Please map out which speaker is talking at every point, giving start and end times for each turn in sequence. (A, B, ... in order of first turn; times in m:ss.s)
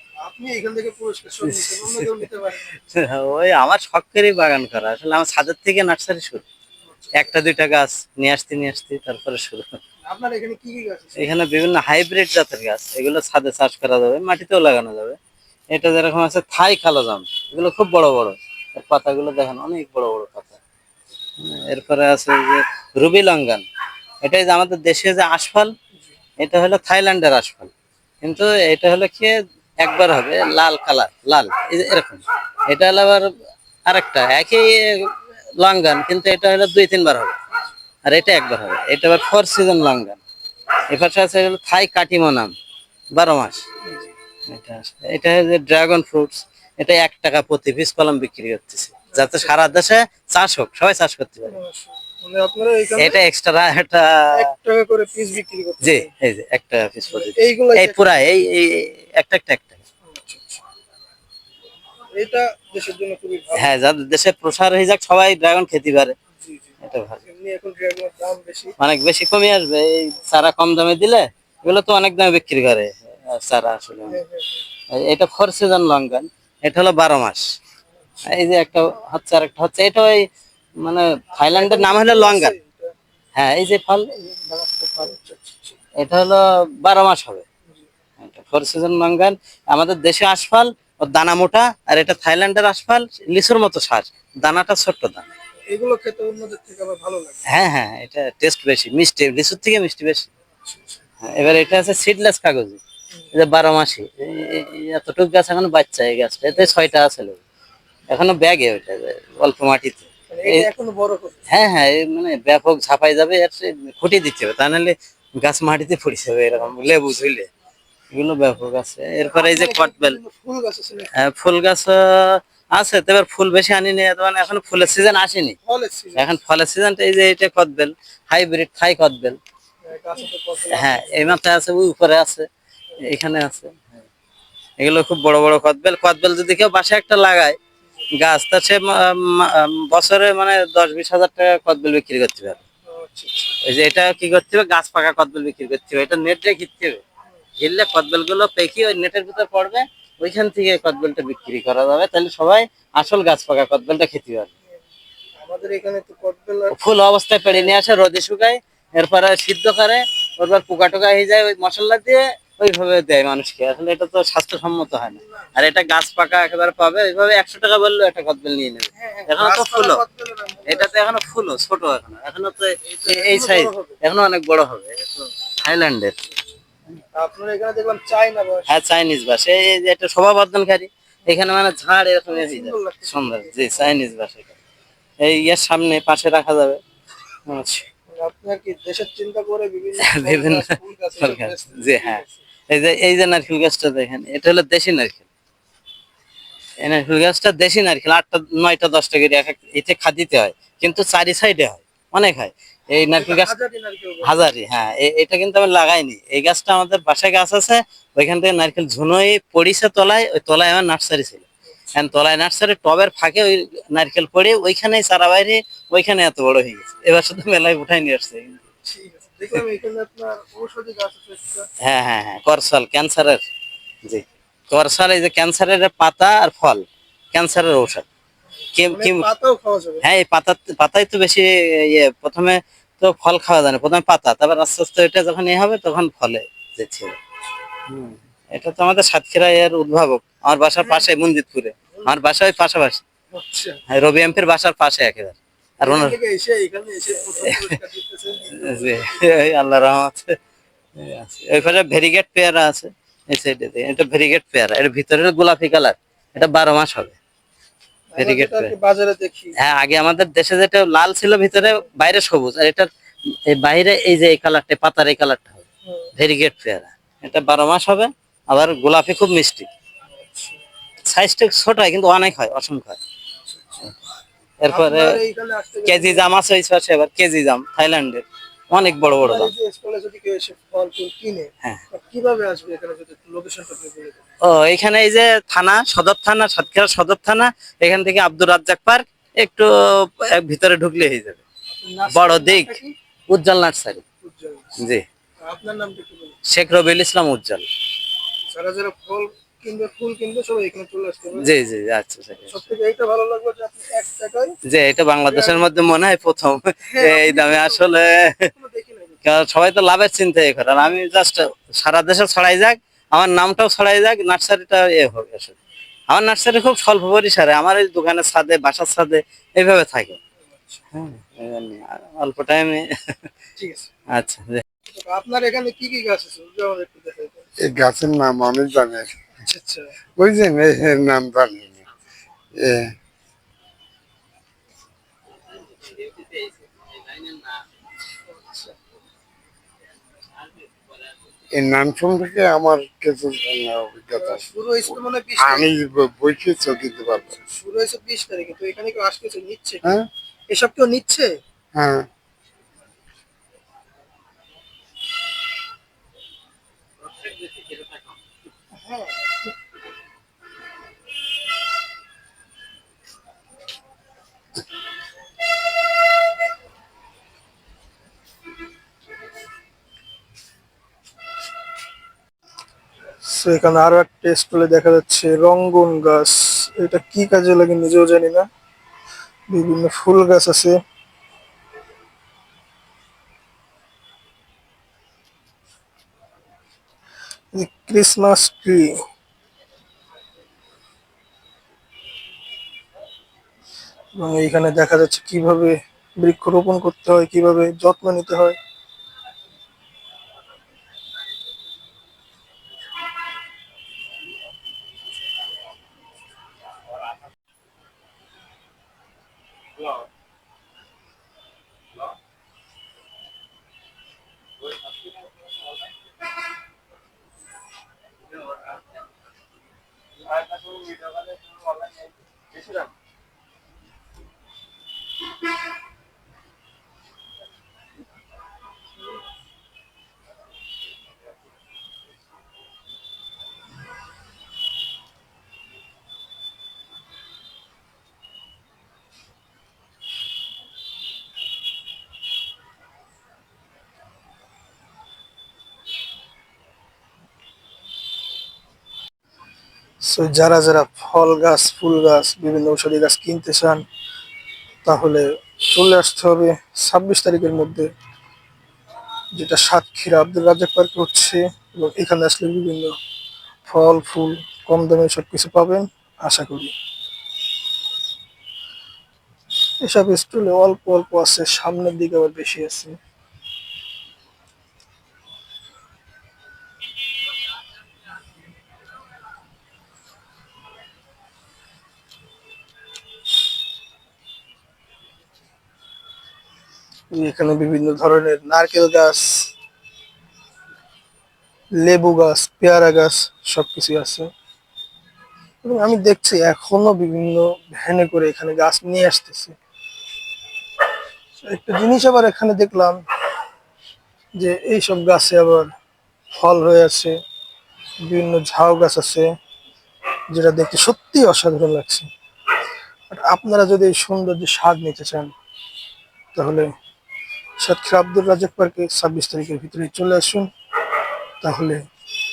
0:00.2-0:02.7 A
0:01.4-0:06.5 B
0:06.9-0:07.3 A
0:07.2-0:09.8 B
0:10.1-0:11.3 A
0:11.2-0:15.2 B
0:15.7-0:20.6 B
0:21.4-0:23.6 B
0:24.2-0:25.7 B
0:26.4-0:27.7 B
0:28.2-0:33.3 B
0:33.9-0:37.4 B
0:38.1-0:40.2 B
0:40.9-0:42.5 B
0:43.1-0:43.6 B
0:43.8-0:44.1 A
0:44.5-0:51.6 B
0:49.1-0:49.7 A
0:51.5-0:53.2 A
0:53.0-0:54.3 B
0:54.3-0:56.1 A
0:55.8-0:59.8 B
0:57.1-0:58.0 A
1:00.1-1:00.6 A
1:02.1-1:03.7 A
1:03.6-1:06.1 B
1:06.4-1:06.7 A
1:06.8-1:07.2 B
1:07.2-1:08.8 A
1:08.8-1:14.2 B
1:14.1-1:14.6 A
1:14.9-1:17.4 B
1:18.3-1:20.2 B
1:20.8-1:22.6 B
1:21.4-1:22.9 A
1:23.4-1:24.1 B
1:24.2-1:25.8 A
1:26.0-1:27.4 B
1:28.2-1:35.3 B
1:35.7-1:37.4 A
1:37.5-1:40.3 B
1:40.6-1:41.0 A
1:41.2-1:42.8 B
1:43.3-1:47.4 B
1:48.1-1:50.7 B
1:50.3-1:51.4 A
1:51.5-1:57.5 B
1:58.1-2:00.2 B
1:59.2-2:01.1 A
2:01.2-2:05.6 B
2:05.6-2:06.4 A
2:06.2-2:09.4 B
2:09.8-2:11.4 A
2:10.7-2:12.5 B
2:13.1-2:14.0 B
2:14.8-2:17.6 B
2:18.2-2:22.6 B
2:22.9-2:23.6 A
2:23.6-2:27.0 B
2:27.6-2:34.5 B
2:35.4-2:36.8 A
2:36.7-2:50.0 B
2:37.4-2:37.7 A
2:49.0-2:51.0 A
2:50.7-2:56.2 B
2:52.8-2:54.0 A
2:57.2-2:58.8 A
2:58.7-3:04.5 B
3:02.3-3:03.8 A
3:05.2-3:06.8 B
3:07.5-3:07.9 B
3:08.1-3:12.4 A
3:10.0-3:10.7 B
3:11.2-3:15.2 B
3:16.8-3:23.5 B
3:23.2-3:24.4 A
3:24.2-3:38.6 B
3:38.9-3:41.7 A
3:41.8-3:43.4 B
3:44.0-3:48.1 B
3:48.8-3:49.3 B
3:48.8-3:50.1 A
3:50.0-3:57.2 B
3:57.9-4:03.0 B
4:00.8-4:01.1 A
4:03.3-4:03.8 A
4:03.9-4:06.2 B
4:05.8-4:09.0 A
4:07.4-4:07.7 B
4:08.5-4:10.3 B
4:11.0-4:17.2 B
4:18.1-4:19.6 A
4:18.2-4:18.8 B
4:19.6-4:22.9 B
4:23.5-4:25.6 B
4:26.2-4:29.7 B
4:30.1-4:30.6 A
4:31.1-4:33.0 B
4:33.5-4:33.9 A
4:34.6-4:35.2 B
4:34.7-4:36.3 A
4:35.9-4:39.5 B
4:39.0-4:44.3 A
4:44.4-4:51.4 B
4:51.8-4:52.9 A
4:52.1-4:52.8 B
4:53.3-4:54.0 B
4:54.2-4:54.8 A
4:54.8-4:55.0 B
4:55.4-4:56.4 A
4:56.5-4:57.7 B
4:58.5-5:01.5 A
5:01.4-5:02.6 B
5:02.5-5:04.6 A
5:04.7-5:08.5 B
5:05.3-5:06.0 A
5:06.9-5:09.2 A
5:09.2-5:15.5 B
5:16.1-5:20.2 B
5:20.5-5:20.8 A
5:20.9-5:22.9 B
5:23.6-5:23.9 A
5:24.1-5:24.6 B
5:24.9-5:27.5 A
5:27.6-5:29.2 C
5:29.4-5:29.9 A
5:30.2-5:31.8 C
5:32.6-5:32.9 C
5:35.5-5:37.6 B
5:40.4-5:41.2 B
5:41.5-5:47.4 C
5:44.2-5:45.7 A
5:47.4-5:49.9 A
5:50.5-5:51.4 A
5:51.8-5:52.1 C
5:57.0-5:58.2 B
5:58.8-5:59.5 A
6:13.2-6:18.5 A
6:19.5-6:20.8 A
6:27.5-6:29.0 A
6:34.2-6:38.6 A
6:54.7-6:55.2 B
7:00.3-7:02.9 B
7:30.0-7:33.8 A
7:34.8-7:37.9 A
7:39.3-7:43.0 A
7:43.7-7:46.7 A
7:49.8-7:53.0 A
8:07.1-8:09.5 A
8:11.8-8:14.3 A
8:15.6-8:19.6 A
8:21.4-8:23.0 A
8:24.4-8:25.7 A
8:26.3-8:27.2 A
8:28.0-8:29.3 A
8:30.3-8:32.1 A
8:33.1-8:35.3 A
8:36.4-8:36.7 A
8:37.6-8:40.5 A
8:41.4-8:41.8 A